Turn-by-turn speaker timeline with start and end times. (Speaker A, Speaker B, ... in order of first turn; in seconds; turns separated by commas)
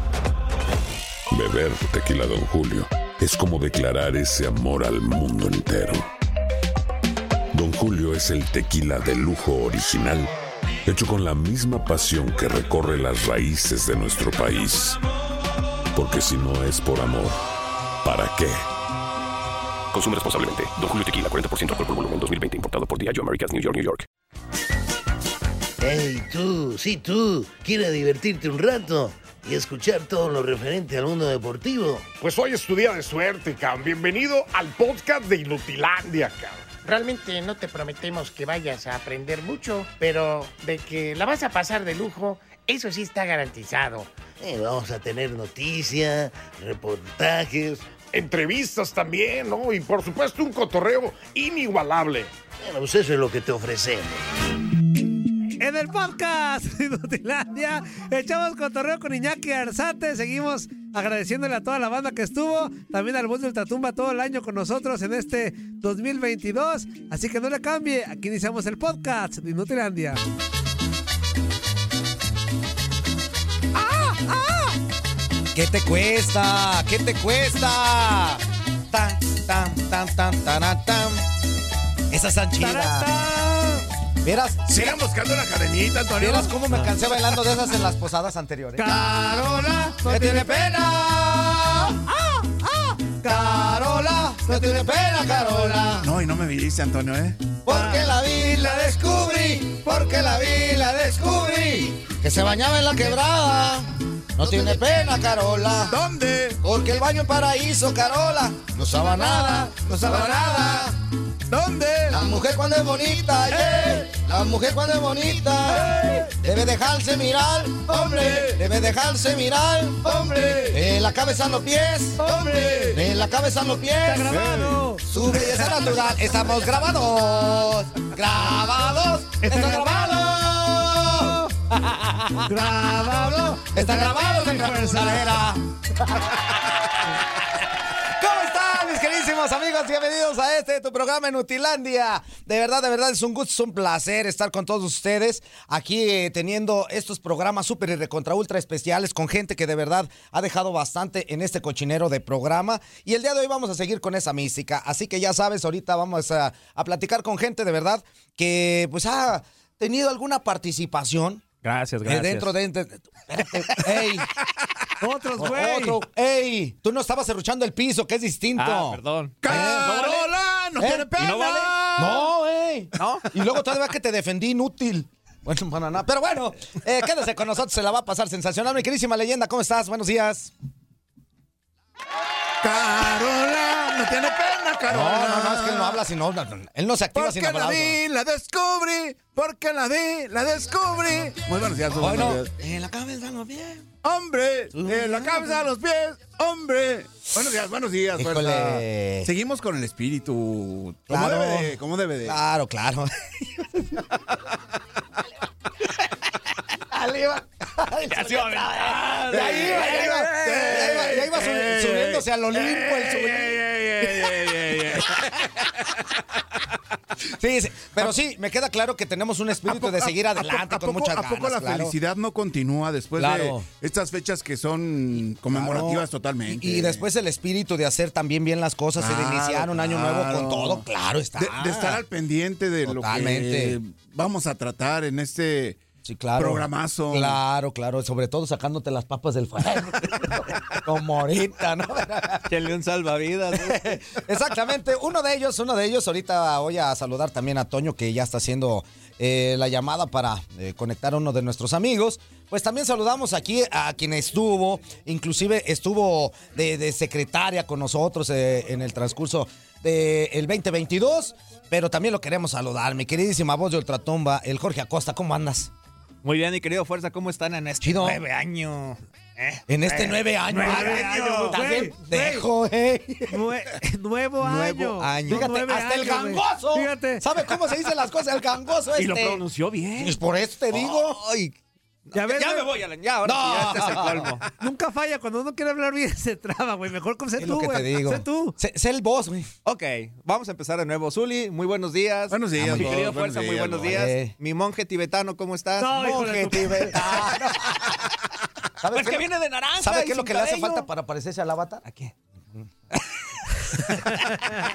Speaker A: 1.3-6.1, Speaker A: 7.5-10.3, Speaker A: 10.8-15.0, Speaker A: 15.9-17.4, Speaker A: 18.0-18.6, Speaker B: 19.9-24.1, Speaker C: 25.8-32.1, Speaker D: 32.2-36.7, Speaker E: 36.8-44.1, Speaker C: 44.4-48.0, Speaker D: 48.0-52.3, Speaker C: 52.6-54.3, Speaker F: 55.6-70.2, Speaker F: 73.8-74.8, Speaker G: 75.5-81.3, Speaker G: 82.1-83.1, Speaker F: 82.6-83.8, Speaker G: 84.2-85.0, Speaker H: 84.7-86.9, Speaker G: 86.2-92.0, Speaker F: 88.8-90.5, Speaker F: 92.1-93.6, Speaker G: 93.2-96.1, Speaker F: 94.5-94.9, Speaker H: 96.0-97.5, Speaker G: 97.6-106.0, Speaker F: 97.7-98.1, Speaker H: 105.9-106.6, Speaker G: 106.6-111.0, Speaker H: 110.0-110.9, Speaker H: 111.5-112.2, Speaker G: 112.1-124.4, Speaker H: 113.5-114.0, Speaker H: 115.8-116.3, Speaker H: 117.9-118.6, Speaker H: 120.0-120.8, Speaker F: 122.2-122.9, Speaker H: 122.2-123.0, Speaker F: 124.0-125.7, Speaker H: 124.3-124.8, Speaker G: 125.0-132.6, Speaker F: 129.4-130.1, Speaker F: 132.4-135.3, Speaker G: 133.5-136.7, Speaker G: 138.1-161.4, Speaker I: 161.6-162.6, Speaker G: 162.1-164.3, Speaker I: 163.6-164.1, Speaker F: 165.0-166.0, Speaker G: 165.4-170.1, Speaker I: 168.6-170.4, Speaker H: 169.4-172.3, Speaker G: 170.8-171.3, Speaker I: 171.1-171.9, Speaker G: 172.0-180.5, Speaker I: 173.0-173.3, Speaker H: 182.6-186.0, Speaker G: 184.9-188.0, Speaker H: 187.1-192.5, Speaker G: 192.0-193.9, Speaker H: 194.0-202.4, Speaker G: 194.7-195.6, Speaker G: 198.2-199.3, Speaker G: 201.1-204.0, Speaker G: 206.9-213.6, Speaker I: 208.1-210.7, Speaker H: 209.5-215.3, Speaker G: 217.3-221.9, Speaker H: 219.7-227.1, Speaker G: 223.2-223.7, Speaker G: 225.5-232.0, Speaker H: 229.0-230.8, Speaker H: 231.4-235.8, Speaker G: 232.9-233.8, Speaker G: 236.1-242.5, Speaker H: 236.4-237.4, Speaker I: 242.5-243.9, Speaker G: 243.5-265.7, Speaker I: 266.2-271.7, Speaker G: 267.8-268.2, Speaker G: 269.7-273.4, Speaker F: 270.6-272.5, Speaker F: 273.3-277.2, Speaker I: 274.4-275.5, Speaker G: 275.0-279.4, Speaker I: 278.9-280.2, Speaker G: 280.0-281.2, Speaker I: 280.7-281.6, Speaker I: 282.1-284.5, Speaker F: 282.1-282.7, Speaker G: 283.2-284.4, Speaker F: 284.6-288.6, Speaker G: 287.4-289.5, Speaker I: 289.6-297.9, Speaker H: 292.3-294.0, Speaker G: 292.6-293.1, Speaker G: 293.9-294.3, Speaker F: 295.8-297.0, Speaker G: 295.9-297.9, Speaker G: 298.8-301.9, Speaker I: 298.9-300.9, Speaker I: 301.8-302.1, Speaker F: 303.9-304.3